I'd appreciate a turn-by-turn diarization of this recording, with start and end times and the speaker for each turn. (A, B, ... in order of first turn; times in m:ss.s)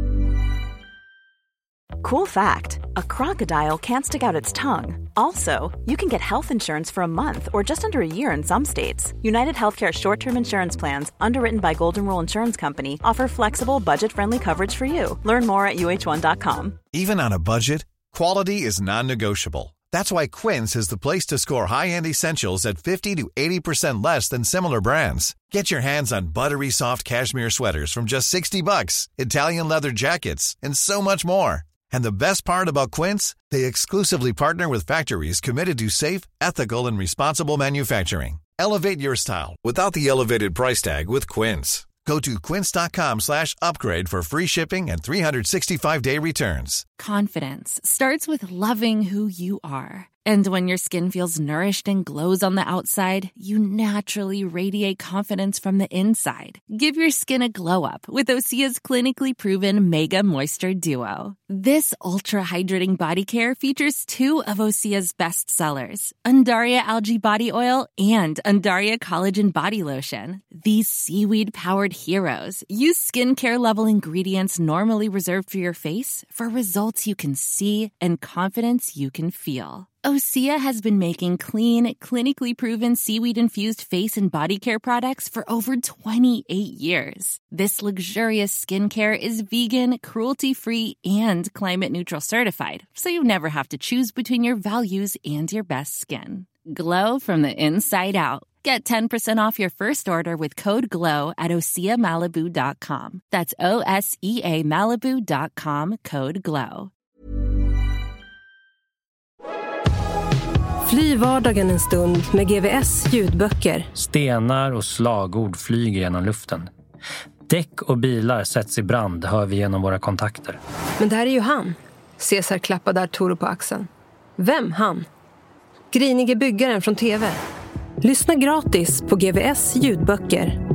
0:02.0-0:16.8 A
0:16.9-0:46.8 B
0:47.0-1:46.9 C
1:50.8-1:53.9 D
1:54.0-1:56.7 E
1:57.5-2:00.6 E
2:01.0-2:05.1 D
2:05.9-2:07.4 D
2:08.0-2:10.6 D